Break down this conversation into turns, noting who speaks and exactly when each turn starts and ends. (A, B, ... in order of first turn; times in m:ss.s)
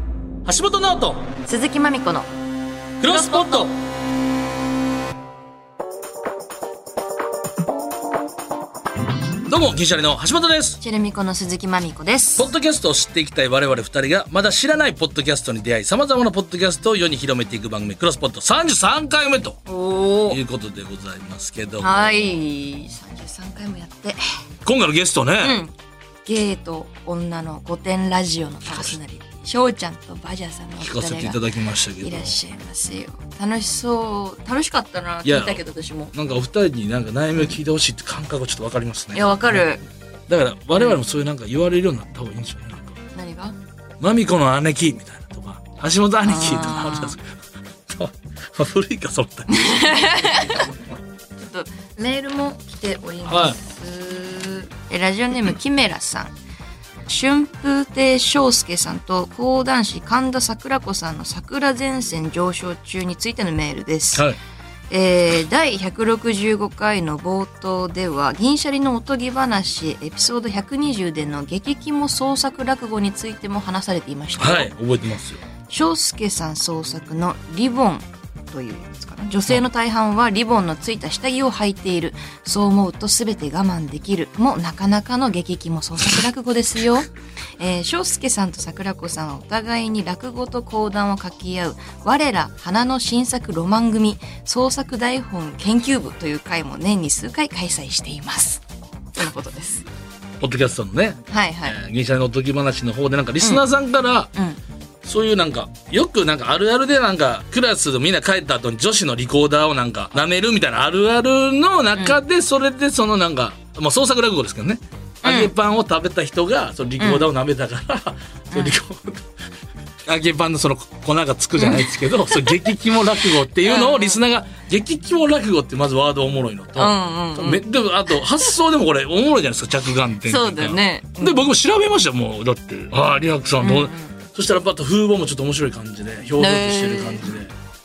0:00.4-0:01.3 A
0:01.4-0:02.3 B
0:03.0-0:03.7 A
0:03.0-0:03.7 B
0:09.5-0:10.8 A
0:10.8-0:12.5 B
0:12.4-0:19.6 A
0:19.7-0:20.4 B
0:20.3-0:22.3 A
0:21.8-0:24.2 B
0:24.6-0:25.6 A
0:25.4-0:25.7 B
0:26.2-0:31.4 B
0:28.6-0:29.0 A
0:30.8-0:32.4 A
0:32.0-0:36.1 B
0:35.2-0:39.7 A
0:39.1-0:39.8 B
0:40.3-0:42.9 A
0:43.1-0:43.6 B
0:44.0-0:47.3 A
0:46.2-0:47.2 B
0:47.9-0:50.5 A
0:49.6-0:50.6 B
0:51.4-0:56.3 B
0:53.2-0:53.6 A
0:57.1-1:04.2 B
1:04.1-1:04.4 A
1:04.9-1:14.7 B
1:14.4-1:15.4 A
1:15.7-1:38.6 B
1:39.2-1:39.8 B
1:40.4-1:44.3 A
1:41.3-1:41.8 B
1:44.3-1:44.6 B
1:45.0-1:59.2 A
1:51.9-1:52.2 B
1:55.2-1:55.5 B
1:57.0-1:57.3 B
2:00.0-2:17.5 A
2:01.6-2:02.0 B
2:03.6-2:04.2 B
2:06.8-2:07.6 B
2:10.2-2:11.5 B
2:13.6-2:14.2 B
2:16.4-2:17.4 B